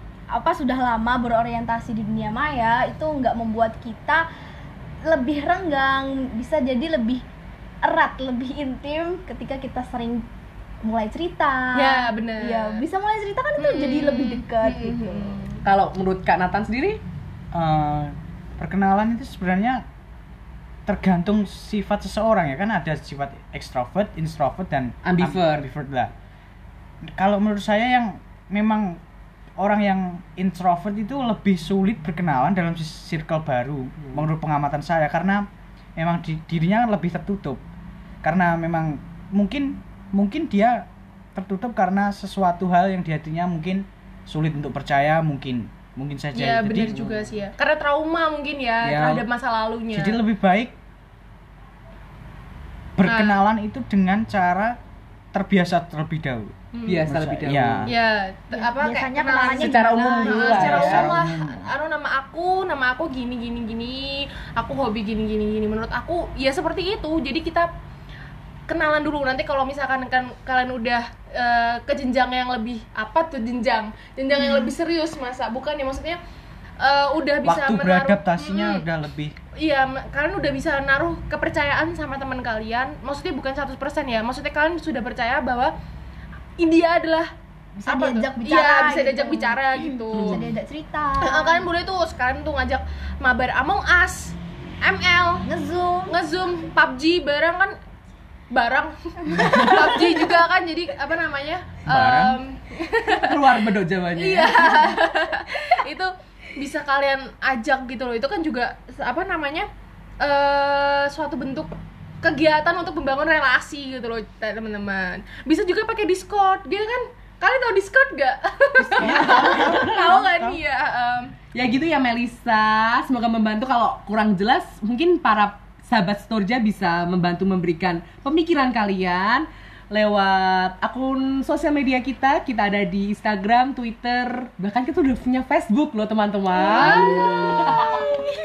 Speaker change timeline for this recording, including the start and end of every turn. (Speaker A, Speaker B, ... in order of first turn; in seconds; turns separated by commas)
Speaker A: 0.3-4.2, Speaker A: 5.0-7.2, Speaker A: 7.8-10.3, Speaker A: 10.8-15.4, Speaker B: 11.8-12.8, Speaker B: 13.6-15.6, Speaker C: 15.6-17.0, Speaker D: 17.5-19.8, Speaker D: 20.9-26.1, Speaker C: 25.1-25.7, Speaker D: 27.1-29.0, Speaker D: 29.6-37.6, Speaker D: 38.2-47.3, Speaker B: 46.3-50.2, Speaker C: 48.8-49.2, Speaker D: 49.9-50.8, Speaker D: 53.0-54.8, Speaker B: 53.0-53.4, Speaker D: 55.3-57.9, Speaker B: 56.7-57.0, Speaker C: 56.9-57.9, Speaker B: 57.9-67.7, Speaker A: 58.5-60.5, Speaker C: 59.4-61.1, Speaker D: 60.4-61.7, Speaker B: 68.7-76.2, Speaker B: 76.8-78.8, Speaker D: 77.4-79.3, Speaker B: 79.6-85.7, Speaker B: 86.6-87.3, Speaker A: 87.8-89.6, Speaker B: 87.9-90.4, Speaker A: 90.2-91.7, Speaker B: 91.2-95.5, Speaker A: 95.4-96.1, Speaker B: 96.1-97.8, Speaker B: 98.5-103.4, Speaker C: 99.4-99.8, Speaker D: 101.9-102.4, Speaker C: 103.1-105.0, Speaker B: 104.2-109.7, Speaker B: 110.2-121.3, Speaker C: 118.8-120.0, Speaker D: 119.0-120.6, Speaker C: 121.5-138.2, Speaker D: 136.8-137.2, Speaker A: 136.8-137.8